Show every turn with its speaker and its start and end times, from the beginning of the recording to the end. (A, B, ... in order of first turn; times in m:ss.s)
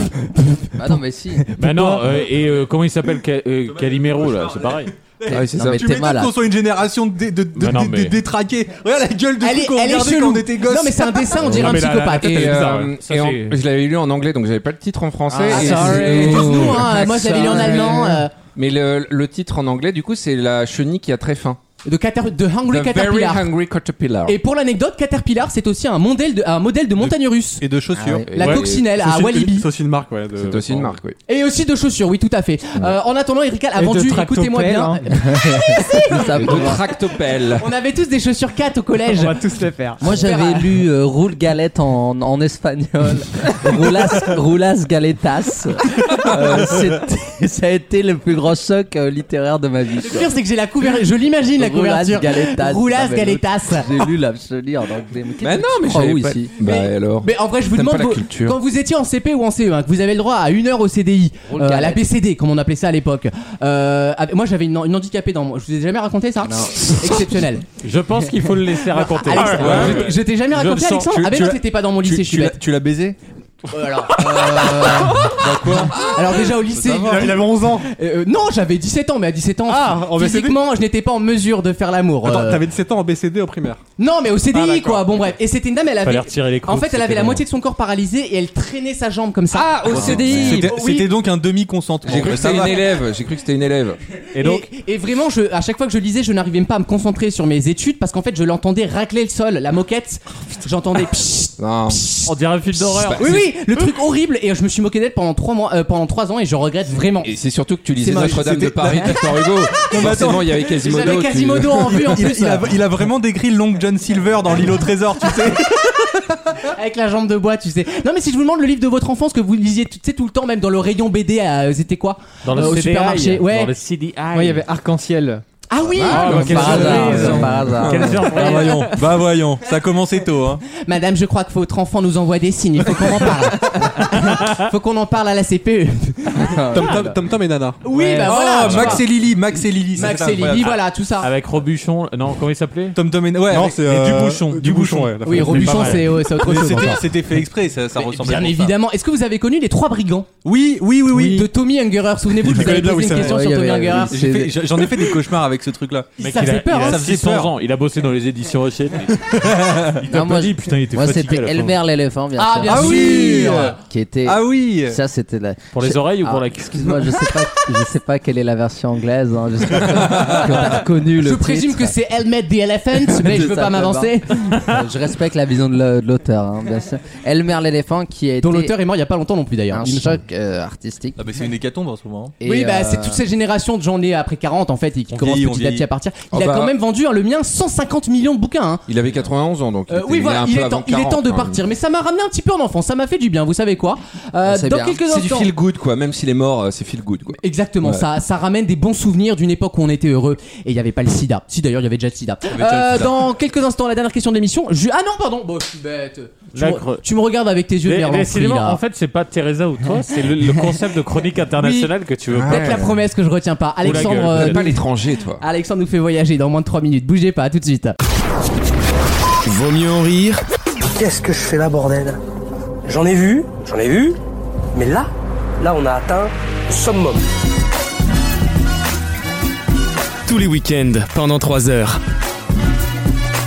0:00.7-0:01.4 A
0:01.4-0:02.0 B
0:01.6-0:04.9 C
0:03.7-0:11.4 D
0:05.3-0:06.3 A
0:05.3-0:05.9 E
0:07.6-0:08.2 C
0:09.4-0:12.4 B
0:11.4-0:12.9 F
0:12.2-0:21.6 E
0:12.4-0:13.6 C
0:15.3-0:18.3 B
0:15.6-0:16.1 C
0:15.6-0:16.5 G
0:17.4-0:17.7 G
0:21.8-0:23.5 B
0:22.7-0:24.4 E
0:24.2-0:27.6 B
0:27.6-0:28.3 D
0:27.9-0:28.3 A
0:28.3-0:28.9 E
0:28.3-0:29.7 B
0:28.4-0:31.0 F
0:30.3-0:31.2 E
0:31.2-0:36.9 B
0:33.8-0:35.0 G
0:35.1-0:36.8 A
0:36.3-0:37.7 E
0:37.6-0:39.4 B
0:39.1-0:40.0 G
0:40.0-0:40.7 B
0:40.0-0:50.3 A
0:46.2-0:46.6 E
0:50.0-0:54.0 B
0:51.5-0:56.5 A
0:55.4-0:58.6 E
0:56.6-1:07.6 B
1:01.5-1:02.0 A
1:06.4-1:07.0 A
1:07.8-1:11.2 C
1:08.9-1:12.6 B
1:09.4-1:10.1 D
1:11.0-1:13.2 D
1:13.7-1:22.6 B
1:14.6-1:17.3 D
1:17.0-1:17.9 F
1:19.7-1:20.6 F
1:22.2-1:23.8 F
1:24.0-1:31.1 B
1:26.0-1:27.4 C
1:29.5-1:30.8 E
1:29.9-1:32.9 D
1:32.0-1:34.0 E
1:34.3-1:42.3 B
1:34.3-1:34.7 C
1:41.6-1:42.1 E
1:42.3-1:43.4 C
1:42.8-1:43.5 E
1:43.1-1:47.3 B
1:47.2-1:52.2 E
1:48.0-1:49.2 B
1:49.8-1:56.7 D
1:49.9-1:52.7 B
1:56.6-2:03.7 B
2:02.4-2:04.6 C
2:04.3-2:05.4 G
2:05.7-2:07.4 B
2:06.0-2:08.4 A
2:06.0-2:07.3 E
2:06.0-2:09.0 C
2:06.6-2:10.6 D
2:10.8-2:17.1 B
2:14.1-2:14.6 C
2:16.4-2:16.9 A
2:16.7-2:17.8 F
2:17.8-2:19.1 B
2:17.9-2:19.0 C
2:18.1-2:20.8 D
2:19.9-2:21.3 B
2:20.7-2:23.0 C
2:22.9-2:23.8 D
2:23.4-2:26.9 F
2:23.8-2:26.0 C
2:25.2-2:27.0 B
2:25.4-2:28.7 D
2:27.9-2:30.3 B
2:30.4-2:31.5 D
2:31.1-2:34.2 B
2:32.4-2:33.5 F
2:32.5-2:32.9 D
2:33.0-2:34.6 A
2:34.1-2:36.2 D
2:36.2-2:37.0 B
2:36.2-2:41.8 C
2:36.7-2:37.5 D
2:39.3-2:40.0 D
2:40.0-2:52.0 A
2:42.4-2:43.8 B
2:42.6-2:45.0 D
2:45.7-2:47.2 C
2:51.2-2:54.5 B
2:52.9-2:58.7 A
2:58.4-3:00.2 B
2:59.7-3:01.2 A
3:01.2-3:02.3 D
3:02.4-3:03.2 A
3:02.4-3:08.8 B
3:05.1-3:05.9 D
3:06.3-3:06.7 E
3:08.9-3:11.6 E
3:09.9-3:15.5 B
3:14.4-3:15.0 A
3:15.0-3:18.0 E
3:17.4-3:28.8 B
3:22.5-3:23.2 D
3:26.5-3:27.0 C
3:27.8-3:32.8 C
3:31.6-3:31.9 B
3:32.3-3:33.0 E
3:32.4-3:34.8 B
3:33.8-3:34.6 C
3:33.8-3:35.4 E
3:35.4-3:38.0 B
3:39.4-3:40.4 H
3:40.9-3:42.2 I
3:42.8-3:44.2 I
3:44.7-3:47.2 I
3:50.2-3:52.0 H